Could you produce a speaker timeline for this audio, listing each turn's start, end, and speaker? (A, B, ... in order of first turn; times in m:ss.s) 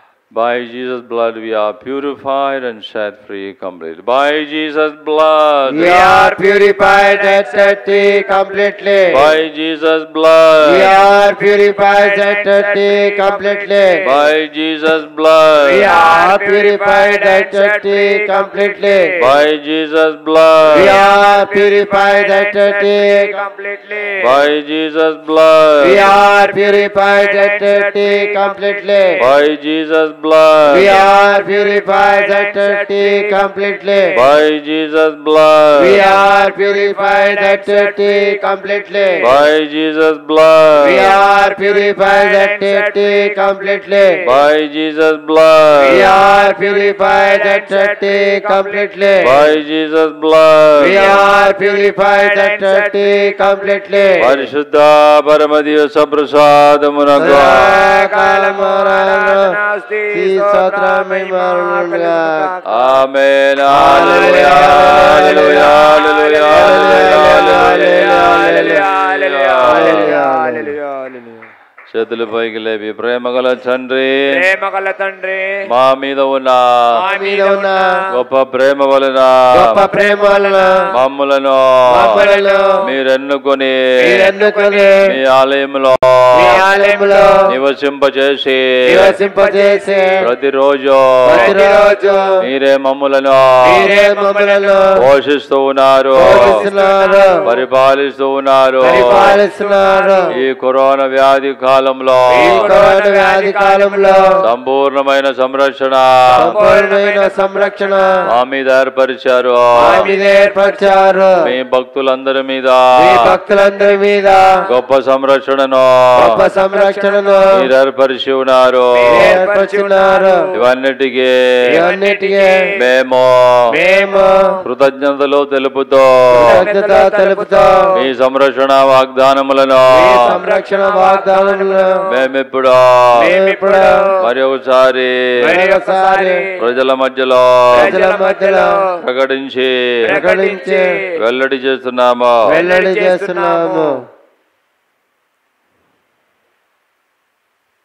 0:00.3-0:06.0 A
0:05.7-0:09.3 B
0:05.8-0:09.1 C
0:09.1-0:10.9 A
0:10.6-0:14.0 B
0:10.8-0:14.3 C
0:14.0-0:15.9 A
0:15.6-0:19.4 C
0:15.7-0:19.1 B
0:19.2-0:20.9 A
0:20.7-0:24.4 C
0:20.7-0:23.4 B
0:24.2-0:26.1 A
0:25.8-0:29.1 B
0:26.0-0:29.2 C
0:29.2-0:31.0 A
0:30.7-0:34.1 B
0:30.8-0:34.3 C
0:34.2-0:36.0 A
0:35.8-0:39.2 B
0:35.9-0:39.3 C
0:39.2-0:41.1 A
0:40.8-0:44.2 B
0:40.8-0:44.4 C
0:44.2-0:46.1 A
0:45.8-0:49.5 C
0:45.8-0:49.3 B
0:49.2-0:51.2 A
0:50.8-0:54.3 B
0:50.9-0:54.2 C
0:54.2-0:57.8 A
0:57.2-0:59.5 B
0:57.2-1:03.0 C
1:00.1-1:02.5 B
1:02.7-1:10.2 A
1:03.7-1:05.7 B
1:03.8-1:11.5 C
1:06.5-1:08.8 B
1:09.6-1:10.8 B
1:11.9-1:14.3 A
1:14.3-1:15.7 C
1:15.7-1:16.8 A
1:16.9-1:18.1 C
1:17.1-1:17.8 B
1:18.1-1:19.9 A
1:19.5-1:20.8 B
1:20.0-1:20.9 C
1:20.9-1:22.3 A
1:21.9-1:22.7 B
1:22.0-1:22.9 C
1:22.8-1:24.3 A
1:24.0-1:25.0 C
1:24.0-1:25.0 B
1:25.0-1:26.6 A
1:26.4-1:27.5 C
1:26.4-1:27.4 B
1:27.5-1:29.2 A
1:28.9-1:30.3 B
1:28.9-1:30.2 C
1:30.2-1:31.6 A
1:31.3-1:32.2 B
1:31.3-1:32.4 C
1:32.4-1:33.9 A
1:33.6-1:34.9 B
1:33.7-1:35.0 C
1:35.0-1:36.6 A
1:36.2-1:37.4 B
1:36.2-1:37.6 C
1:37.5-1:39.4 A
1:38.8-1:40.3 B
1:38.9-1:40.3 C
1:40.4-1:42.8 A
1:42.3-1:44.4 C
1:42.4-1:44.2 B
1:44.4-1:46.6 A
1:46.3-1:48.3 C
1:46.4-1:48.1 B
1:48.3-1:50.1 A
1:49.8-1:51.4 B
1:49.8-1:51.1 C
1:51.4-1:53.3 A
1:53.0-1:54.4 B
1:54.7-1:56.4 A
1:56.2-1:57.6 B
1:56.5-1:57.6 C
1:57.5-1:59.4 A
1:59.0-2:00.5 C
1:59.1-2:00.4 B
2:00.5-2:01.3 A
2:01.7-2:02.7 C
2:01.8-2:02.6 B
2:02.8-2:03.6 A
2:03.7-2:04.4 B
2:03.7-2:04.6 C
2:04.6-2:06.7 A
2:06.3-2:08.0 C
2:06.4-2:07.8 B
2:08.0-2:10.4 A
2:09.9-2:11.9 B
2:10.0-2:12.1 C
2:12.1-2:13.2 A
2:13.2-2:14.2 C
2:13.2-2:14.0 B
2:14.2-2:15.6 A
2:15.4-2:16.6 C
2:15.5-2:16.4 B
2:16.6-2:18.0 A
2:17.7-2:19.0 C
2:17.8-2:18.7 B
2:19.0-2:20.1 A
2:20.0-2:21.2 C
2:20.1-2:20.9 B
2:21.2-2:22.4 A
2:22.5-2:24.0 B
2:22.5-2:24.0 C